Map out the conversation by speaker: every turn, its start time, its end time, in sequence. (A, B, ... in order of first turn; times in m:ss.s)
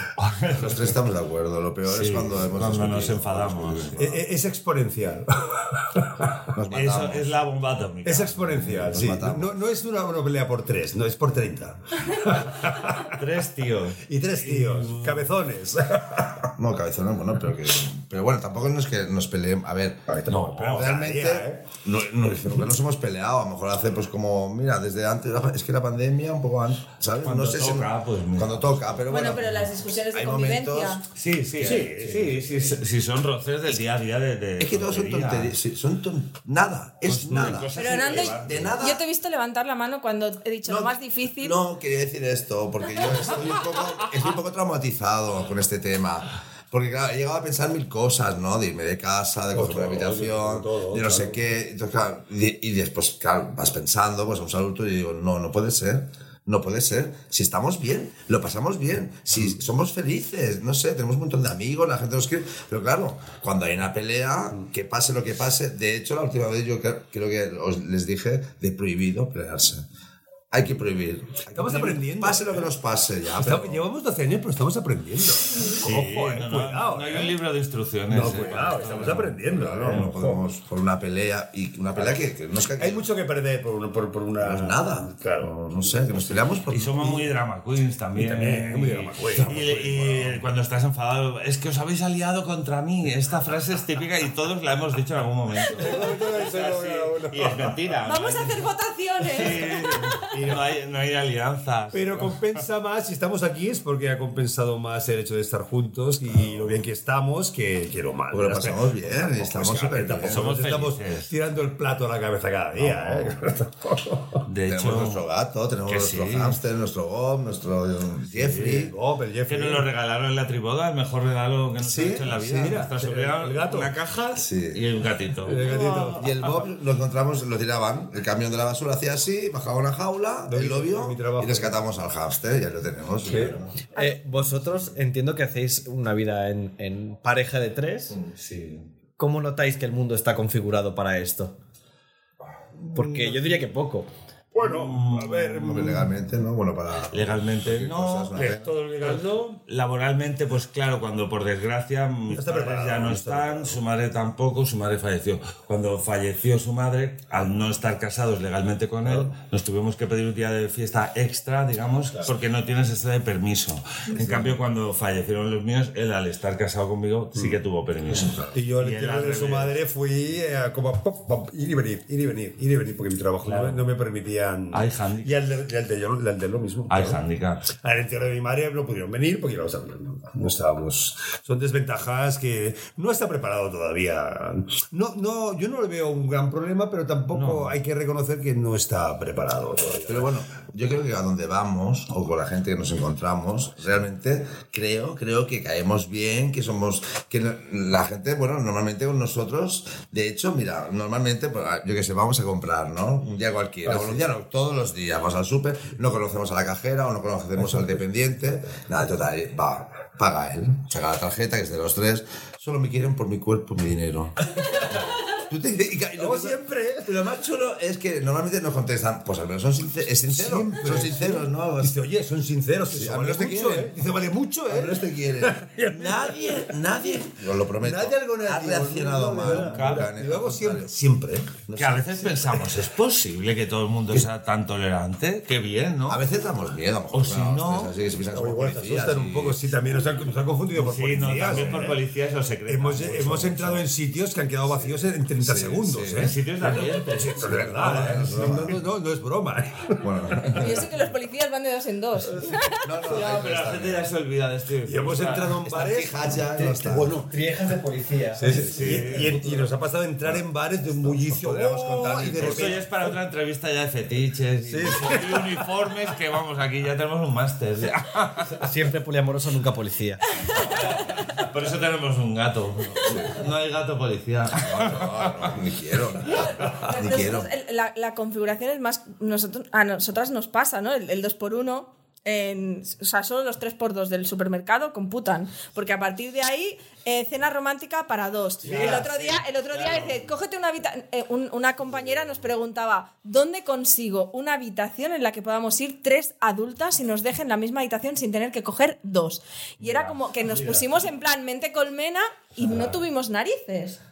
0:00.2-0:01.0 A
0:00.5-0:04.2 B
0:01.8-0:04.1 A
0:04.0-0:06.3 C
0:06.5-0:07.3 B
0:06.7-0:08.8 A
0:08.0-0:13.2 C
0:08.5-0:09.5 B
0:12.4-0:15.4 A
0:14.1-0:16.4 C
0:16.6-0:20.2 B
0:20.1-0:21.6 C
0:20.3-0:20.8 A
0:20.7-0:31.0 B
0:27.2-0:29.0 A
0:29.1-0:31.0 D
0:31.2-0:35.5 A
0:31.4-0:32.7 C
0:34.6-0:39.0 B
0:37.0-0:38.8 A
0:37.3-0:38.7 C
0:37.7-0:41.6 D
0:40.7-1:09.8 B
0:49.5-0:51.4 C
1:10.5-1:13.8 B
1:11.5-1:12.7 C
1:13.4-1:17.4 C
1:15.8-1:20.1 A
1:18.1-1:20.4 C
1:18.2-1:23.0 B
1:22.8-1:26.5 C
1:24.4-1:27.2 B
1:26.7-1:38.7 A
1:28.2-1:30.4 C
1:35.7-1:38.0 C
1:38.0-1:40.0 D
1:39.2-1:42.6 A
1:39.4-1:40.7 C
1:41.9-1:54.4 C
1:48.3-1:50.4 B
1:50.2-1:51.3 A
1:52.8-1:53.3 B
1:54.5-1:55.2 A
1:54.7-1:58.9 B
1:55.9-1:56.6 A
1:58.3-1:58.9 A
1:58.5-1:59.9 C
1:59.5-2:05.6 A
2:01.8-2:04.1 C
2:04.4-2:04.8 B
2:05.4-2:06.3 C
2:05.6-2:06.2 D
2:06.2-2:13.7 B
2:10.5-2:11.8 C
2:13.2-2:13.6 C
2:14.0-2:18.2 E
2:18.1-2:18.9 A
2:19.2-2:21.6 E
2:22.9-2:24.1 E
2:23.0-2:23.6 A
2:24.5-2:26.0 C
2:24.6-2:26.1 A
2:25.5-2:28.8 B
2:27.1-2:28.3 A
2:28.3-2:29.6 C
2:29.0-2:49.8 A
2:32.3-2:33.8 C
2:39.0-2:39.3 C
2:44.2-2:44.6 C
2:48.2-2:48.5 B
2:48.5-3:10.3 C
2:53.4-2:53.8 A
2:54.7-2:55.4 A
2:56.9-2:57.7 A
3:07.3-3:07.7 A
3:10.0-3:42.0 B
3:23.9-3:24.2 C
3:27.6-3:28.0 C
3:36.2-3:37.1 C
3:40.3-3:46.5 C
3:42.9-3:44.0 B
3:44.7-3:50.9 B
3:47.8-3:51.6 C
3:49.4-3:50.1 A
3:51.7-3:52.6 B
3:51.8-3:56.2 A
3:56.1-3:59.7 B
3:57.1-3:57.9 A
3:58.3-4:02.0 C
4:00.7-4:03.9 A
4:01.4-4:01.9 B
4:02.7-4:10.8 C
4:04.7-4:08.8 B
4:06.1-4:08.6 A
4:10.0-4:10.9 B
4:10.6-4:12.9 D
4:12.8-4:14.1 B
4:13.0-4:15.6 A
4:14.8-4:17.3 C
4:15.6-4:17.1 B
4:16.6-4:18.5 E
4:18.4-4:23.0 C
4:18.5-4:19.2 B
4:18.5-4:19.4 A
4:20.2-4:22.8 B
4:22.4-4:28.5 A
4:24.6-4:25.6 C
4:28.6-4:30.2 E
4:30.5-4:35.5 A
4:33.0-4:33.4 B
4:34.6-4:37.5 B
4:36.2-5:04.0 D
4:36.6-4:36.9 A
4:48.6-4:50.1 A
4:48.6-4:49.2 C
4:59.8-5:00.8 A
5:02.6-5:02.9 A